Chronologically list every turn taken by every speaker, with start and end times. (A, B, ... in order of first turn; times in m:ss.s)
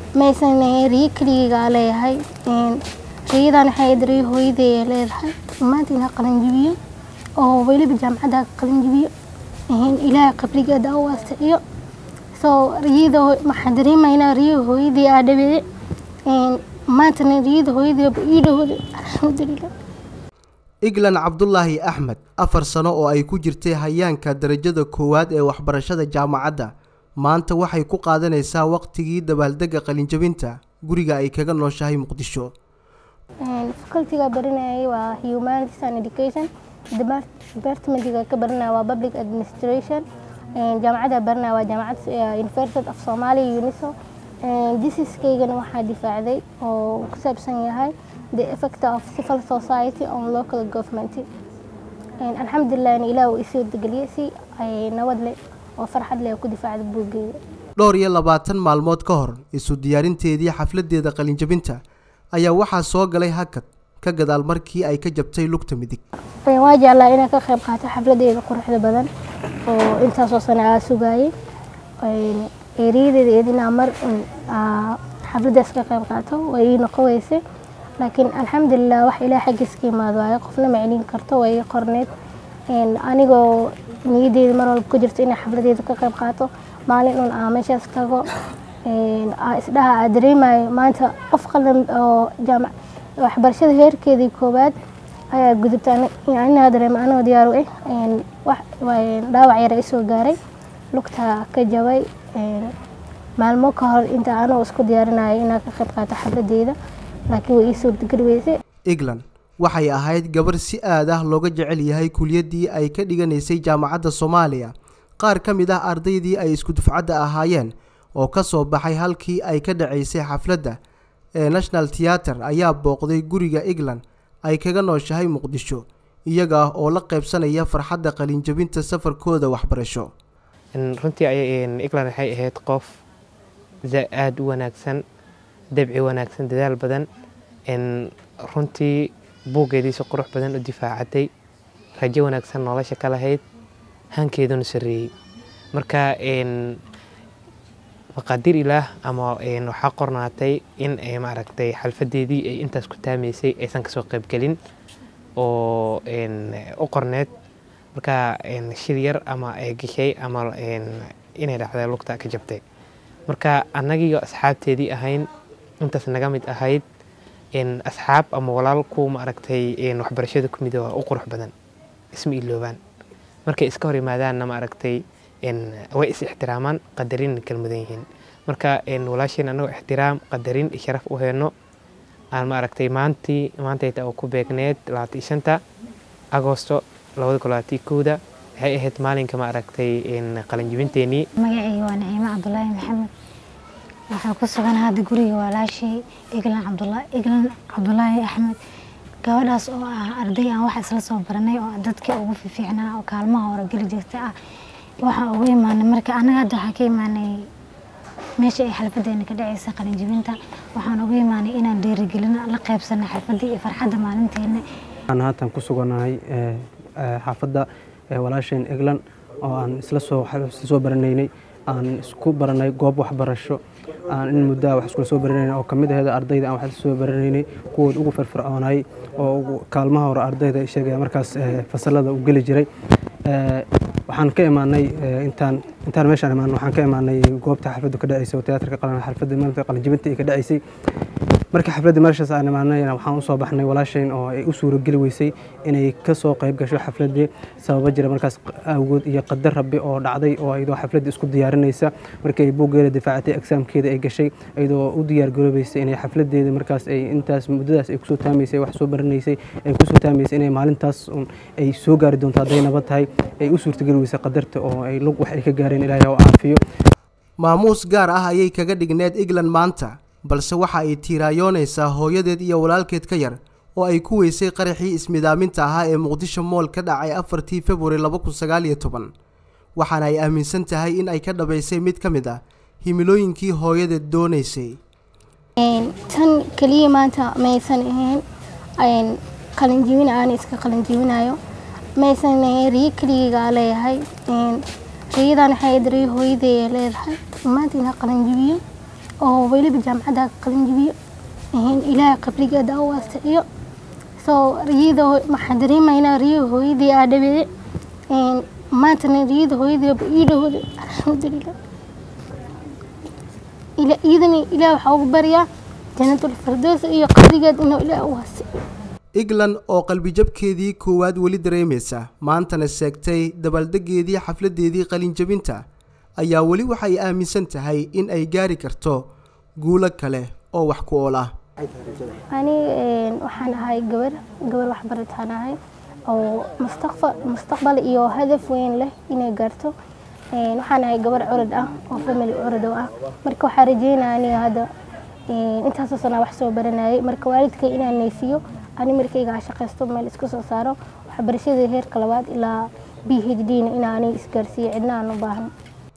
0:00.2-0:06.8 A
0:07.4-0:09.1 A
0:09.7-0:11.6 A
0:12.4-0:15.6 A
0:16.3-0:19.7 A
0:20.8-0:32.5 B
0:33.4-0:40.0 A
0:40.6-0:51.3 A
0:52.2-0:57.4 A
0:57.8-1:01.8 B
1:02.3-1:06.0 B
1:06.4-1:09.1 A
1:09.6-1:11.3 A
1:12.0-1:17.4 A
1:18.0-1:22.1 A
1:22.7-1:28.3 A
1:28.8-1:34.8 A
1:35.3-1:40.4 A
1:40.9-1:42.7 A
1:43.4-1:46.8 A
1:47.3-1:48.6 A
1:48.9-2:00.8 B
2:01.4-2:10.1 B
2:10.8-2:12.9 C
2:13.9-2:15.0 C
2:15.8-2:17.1 C
2:18.5-2:21.3 C
2:22.0-2:23.4 C
2:24.2-2:25.1 C
2:25.8-2:26.5 C
2:28.2-2:34.6 C
2:35.4-2:37.3 C
2:38.0-2:42.6 C
2:43.3-2:45.3 C
2:45.8-2:46.8 C
2:47.6-2:51.5 C
2:52.1-2:52.8 C
2:53.5-3:01.5 C
3:02.4-3:05.6 C
3:06.3-3:11.2 C
3:11.5-3:13.1 D
3:14.2-3:15.9 D
3:16.4-3:18.5 D
3:19.3-3:24.2 D
3:25.1-3:27.2 D
3:28.5-3:34.6 D
3:35.1-3:43.6 E
3:44.1-3:52.7 E
3:53.3-4:00.6 E
4:01.5-4:26.6 E
4:27.4-4:39.1 B
4:39.8-4:44.8 B
4:45.6-4:48.2 A
4:48.8-4:51.4 A
4:52.0-4:58.6 A
4:59.2-5:01.0 A
5:01.5-5:03.4 A
5:04.2-5:07.5 A
5:08.1-5:11.5 A
5:13.8-5:15.5 A
5:16.0-5:18.5 A
5:19.2-5:25.6 B
5:26.2-5:29.1 B
5:29.6-5:31.3 B
5:32.3-5:35.6 A
5:36.1-5:39.7 A
5:40.3-5:44.7 A
5:45.3-5:55.5 A